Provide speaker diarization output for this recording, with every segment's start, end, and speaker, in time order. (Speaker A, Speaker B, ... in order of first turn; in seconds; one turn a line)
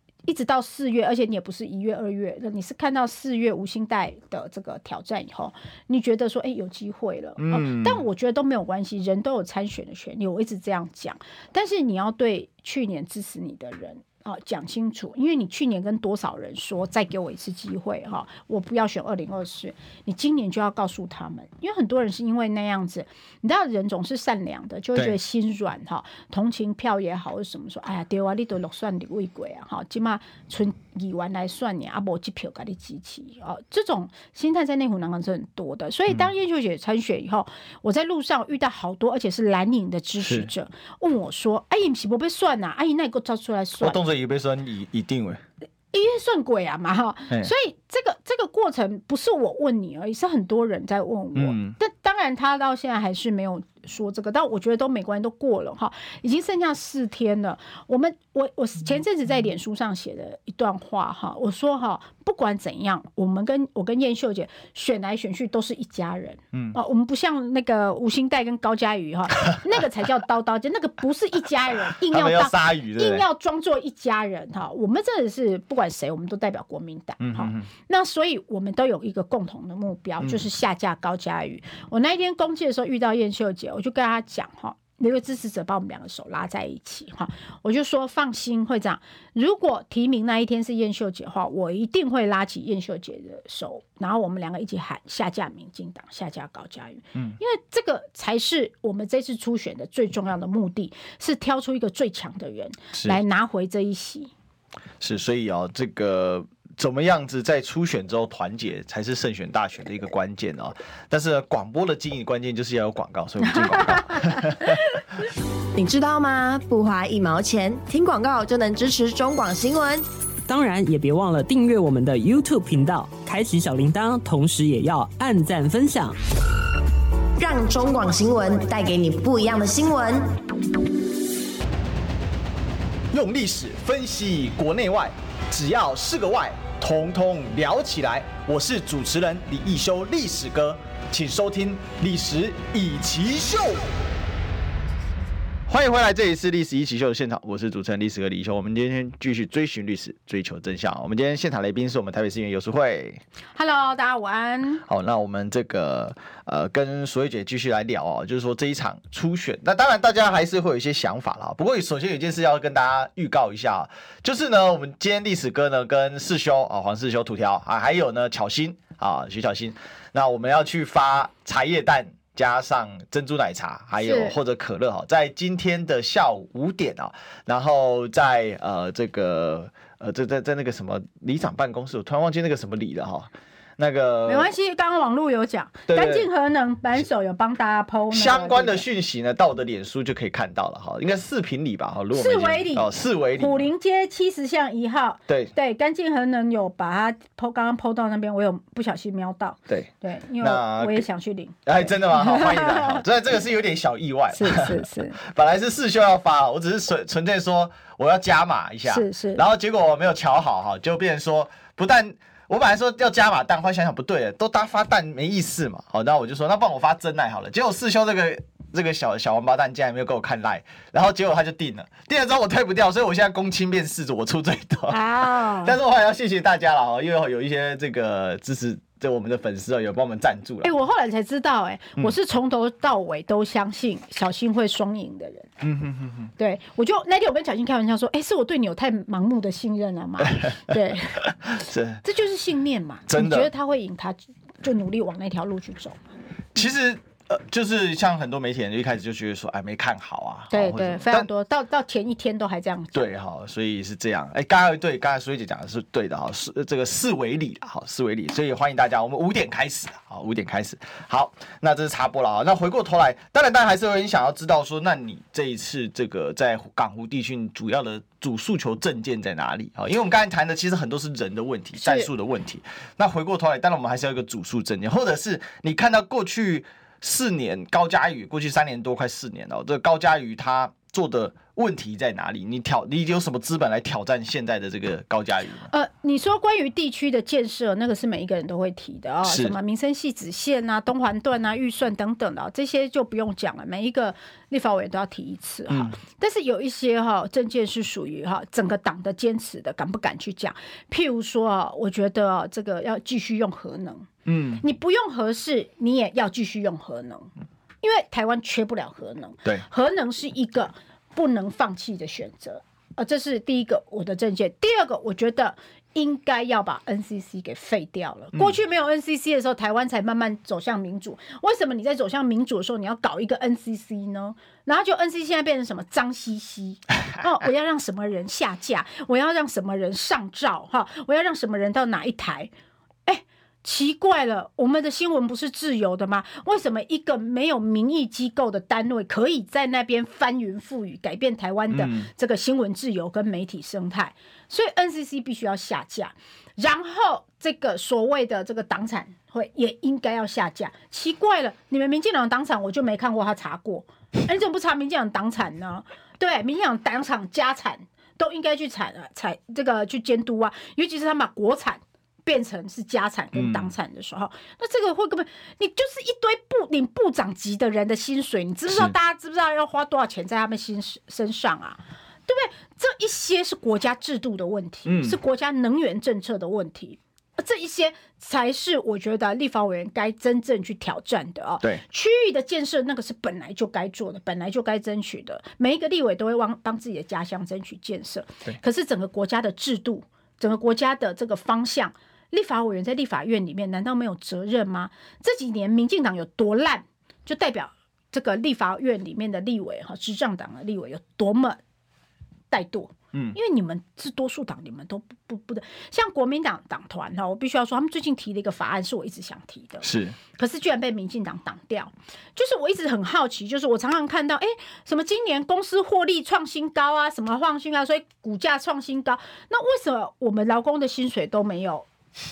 Speaker A: 0.2-44.0
Speaker B: 7.4-8.0
Speaker B: 40.2-40.5
Speaker B: 43.8-45.4
Speaker A: 45.9-104.3
Speaker B: 51.3-51.8
Speaker B: 72.1-73.2
Speaker B: 77.2-77.7
Speaker B: 102.9-103.2
Speaker B: 105.0-115.0
Speaker A: 113.5-115.0
Speaker C: 115.7-120.0
Speaker D: 120.5-126.2
Speaker C: 127.4-130.3
Speaker B: 133.1-143.9
Speaker B: 145.7-153.2
Speaker A: 153.5-154.8
Speaker B: 154.8-184.5
Speaker A: 174.0-174.3
Speaker A: 184.2-188.8
Speaker B: 185.9-186.3
Speaker B: 188.1-193.7
Speaker A: 192.1-203.0
Speaker B: 200.4-201.1
Speaker B: 201.7-230.7
Speaker A: 204.3-205.2
Speaker A: 208.9-209.4
Speaker A: 224.9-225.8
Speaker A: 230.6-235.5
Speaker B: 235.6-236.3
Speaker A: 236.4-241.3
Speaker B: 240.2-242.0
Speaker A: 242.0-246.1
Speaker B: 243.1-243.5
Speaker B: 246.5-251.3
Speaker A: 250.5-253.1
Speaker B: 252.9-285.7
Speaker A: 271.8-272.1
Speaker A: 285.7-307.3
Speaker B: 289.2-289.6
Speaker B: 295.7-295.9
Speaker B: 304.2-304.6
Speaker A: 307.8-332.5
Speaker A: 333.1-401.6
Speaker B: 341.7-342.1
Speaker B: 363.3-363.7
Speaker B: 368.7-368.9
Speaker B: 374.8-375.2
Speaker A: 402.5-421.9
Speaker B: 409.8-410.2